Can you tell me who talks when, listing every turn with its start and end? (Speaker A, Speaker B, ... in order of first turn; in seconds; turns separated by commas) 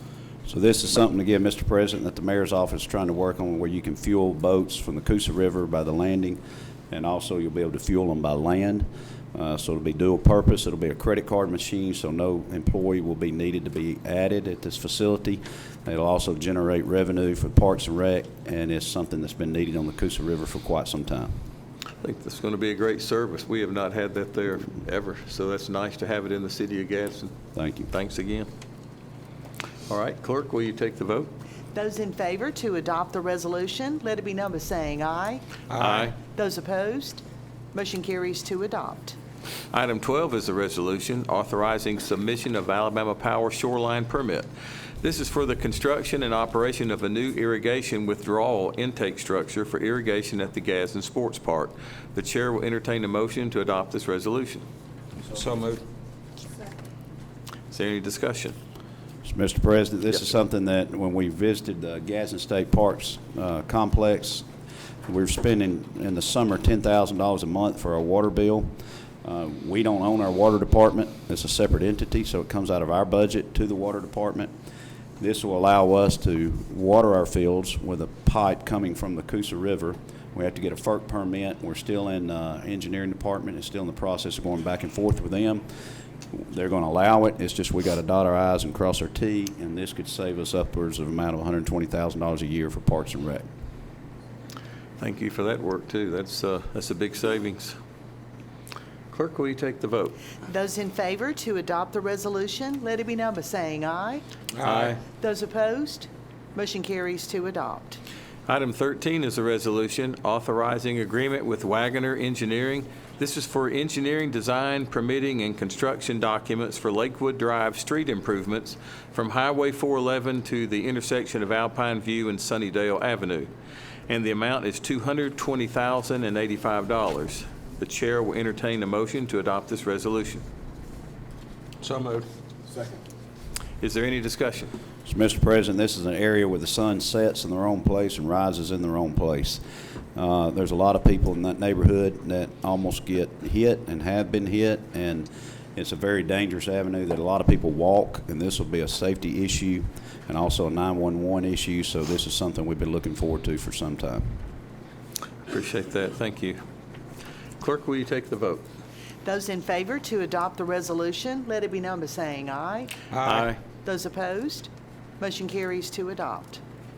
Speaker A: 0.5-21.4, Speaker B: 22.0-27.3, Speaker A: 27.6-27.9, Speaker B: 27.9-28.5, Speaker B: 29.9-31.3, Speaker C: 31.8-35.5, Speaker D: 35.7-36.1, Speaker B: 35.8-36.2, Speaker C: 36.2-39.2, Speaker B: 39.7-44.5, Speaker B: 45.0-54.6, Speaker D: 55.2-55.8, Speaker B: 57.7-58.6, Speaker A: 59.2-64.5, Speaker A: 65.1-74.5, Speaker A: 75.2-85.7, Speaker A: 86.3-93.5, Speaker B: 95.0-97.8, Speaker B: 99.1-100.2, Speaker C: 100.5-104.2, Speaker D: 104.6-105.0, Speaker B: 104.6-105.0, Speaker C: 105.1-108.0, Speaker B: 108.5-123.5, Speaker B: 124.1-130.4, Speaker D: 131.8-132.3, Speaker B: 133.8-134.7, Speaker A: 135.1-139.6, Speaker A: 140.2-154.4, Speaker B: 155.5-156.6, Speaker B: 157.6-158.7, Speaker C: 159.2-163.0, Speaker D: 163.1-163.6, Speaker B: 163.2-163.6, Speaker C: 163.8-166.6